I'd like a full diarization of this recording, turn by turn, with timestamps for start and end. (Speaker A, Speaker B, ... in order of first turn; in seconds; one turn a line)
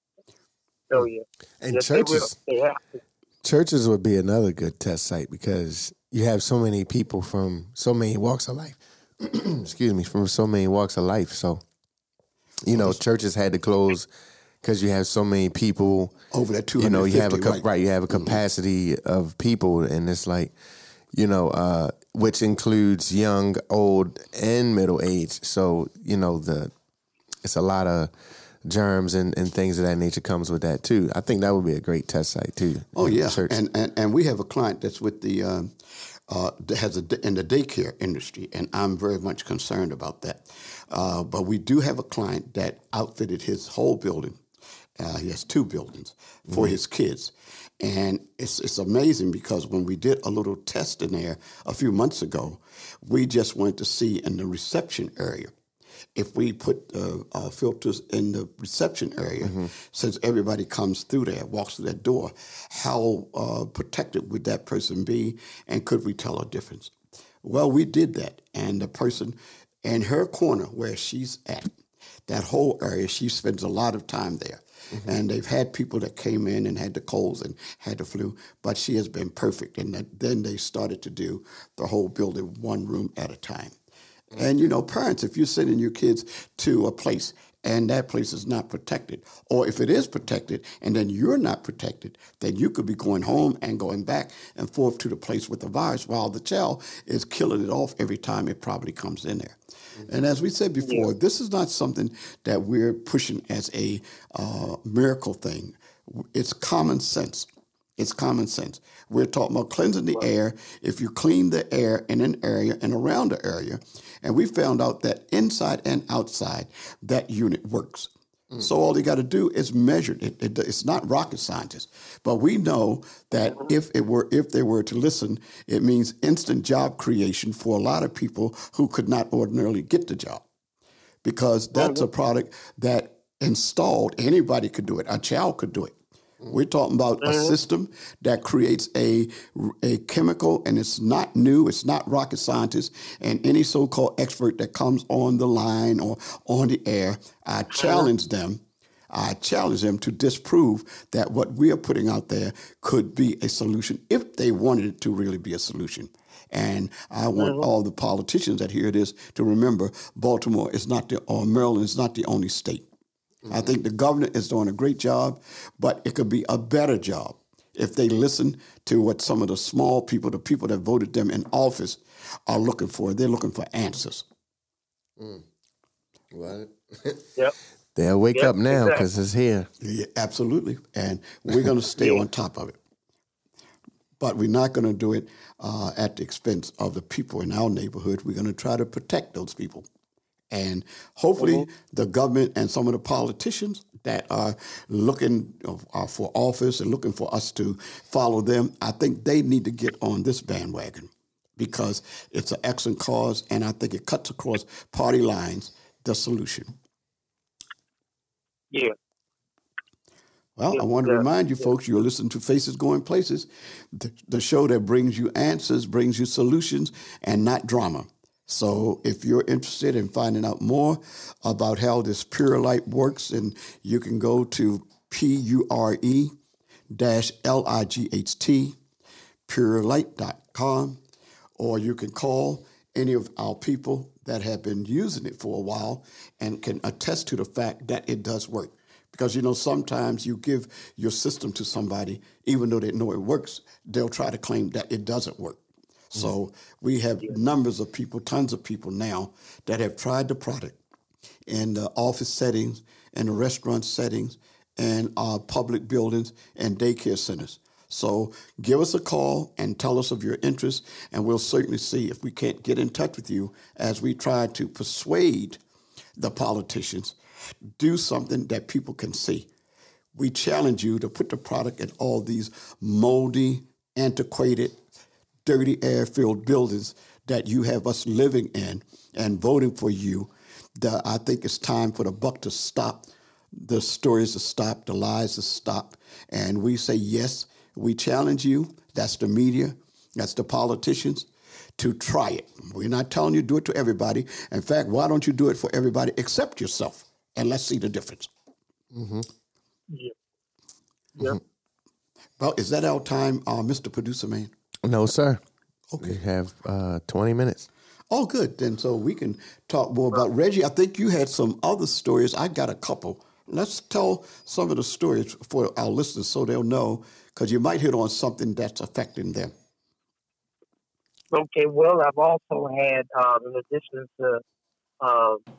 Speaker A: 0.9-3.0
Speaker B: 1.6-2.3
Speaker B: 3.4-11.6
Speaker B: 12.6-14.1
Speaker C: 12.7-13.0
Speaker B: 14.6-16.1
Speaker C: 16.3-18.4
Speaker B: 16.8-20.5
Speaker B: 21.1-26.7
Speaker B: 27.4-28.1
Speaker B: 28.6-33.5
Speaker C: 32.9-44.4
Speaker C: 45.0-55.5
Speaker C: 56.1-71.7
Speaker B: 59.4-59.7
Speaker C: 72.3-83.8
Speaker C: 84.3-130.4
Speaker A: 100.8-101.1
Speaker C: 131.2-162.9
Speaker A: 131.8-132.0
Speaker A: 137.2-137.6
Speaker A: 147.8-148.1
Speaker A: 157.4-157.7
Speaker C: 163.5-174.2
Speaker B: 176.3-177.2
Speaker B: 177.9-179.7
Speaker A: 178.3-179.1
Speaker C: 179.8-182.8
Speaker A: 182.0-182.2
Speaker C: 184.2-189.9
Speaker C: 190.5-206.7
Speaker A: 191.4-191.7
Speaker C: 210.6-226.3
Speaker A: 210.7-211.2
Speaker C: 226.9-228.8
Speaker C: 229.5-231.0
Speaker C: 231.6-250.8
Speaker C: 251.5-265.6
Speaker C: 266.2-267.2
Speaker C: 267.8-269.5
Speaker C: 270.1-274.8
Speaker C: 275.4-298.3
Speaker B: 298.9-299.3
Speaker C: 302.4-304.5
Speaker B: 304.8-305.4
Speaker C: 305.9-306.2
Speaker B: 306.0-307.7
Speaker C: 308.1-319.5
Speaker A: 321.3-324.4
Speaker A: 325.0-325.4